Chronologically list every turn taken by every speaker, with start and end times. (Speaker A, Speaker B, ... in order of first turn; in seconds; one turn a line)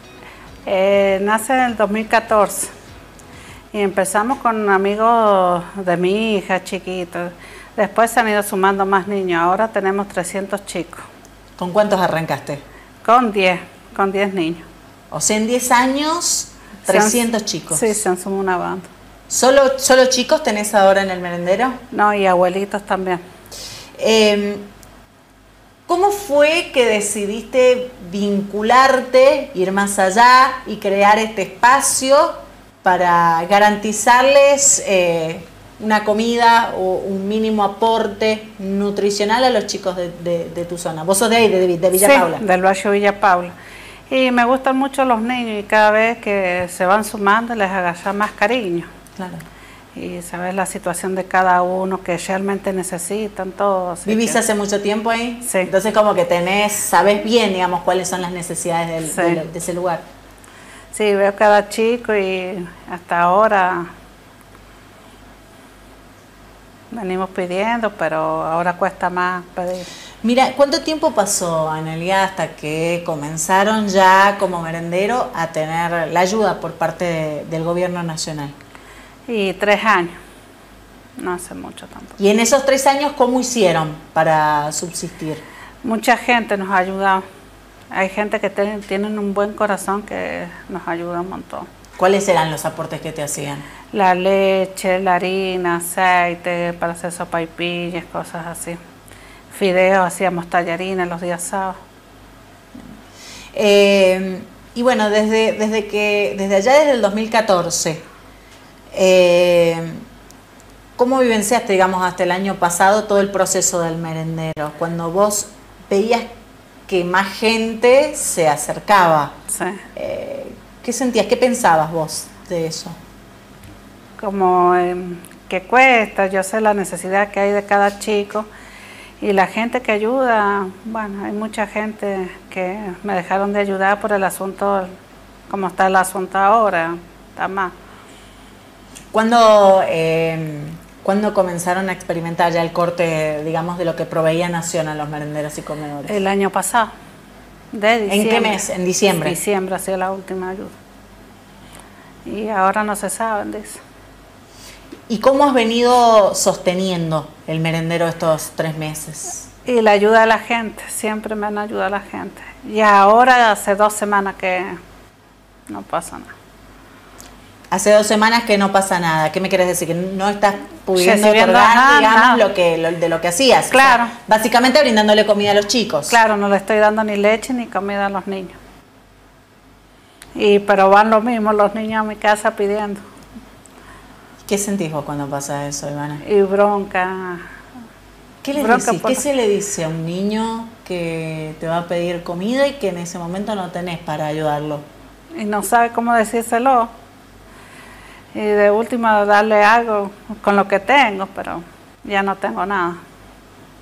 Speaker A: 0.7-2.7
Speaker A: 3.7-11.0
Speaker B: 11.6-12.6
Speaker A: 13.0-14.7
Speaker B: 15.1-17.9
Speaker A: 16.9-18.9
Speaker B: 19.3-21.8
Speaker A: 21.9-23.2
Speaker B: 24.0-24.7
Speaker B: 25.9-42.4
Speaker A: 42.0-43.5
Speaker A: 44.1-48.9
Speaker B: 49.2-49.5
Speaker A: 50.0-54.4
Speaker B: 54.1-60.0
Speaker A: 55.5-55.7
Speaker A: 59.1-59.5
Speaker A: 60.9-63.9
Speaker A: 66.9-69.9
Speaker B: 70.2-78.5
Speaker A: 79.3-80.2
Speaker A: 81.2-82.2
Speaker B: 82.2-85.4
Speaker A: 85.8-87.2
Speaker A: 87.9-91.7
Speaker B: 92.0-93.7
Speaker A: 93.9-98.8
Speaker A: 99.5-101.8
Speaker B: 103.5-108.0
Speaker B: 108.9-110.0
Speaker B: 111.0-116.3
Speaker B: 116.9-119.3
Speaker A: 119.5-119.8
Speaker B: 120.0-123.0
Speaker A: 124.2-128.5
Speaker A: 129.2-134.9
Speaker A: 135.5-137.7
Speaker B: 139.1-146.2
Speaker A: 146.1-146.9
Speaker A: 147.7-150.8
Speaker B: 148.1-149.4
Speaker A: 152.3-153.8
Speaker B: 155.1-159.5
Speaker A: 159.7-164.8
Speaker A: 165.7-166.3
Speaker B: 167.7-176.2
Speaker A: 170.9-172.4
Speaker A: 173.7-174.1
Speaker A: 176.1-178.6
Speaker A: 180.4-183.0
Speaker B: 184.4-186.2
Speaker A: 186.2-187.4
Speaker B: 188.4-194.8
Speaker A: 188.6-189.2
Speaker A: 195.4-196.9
Speaker A: 198.3-203.0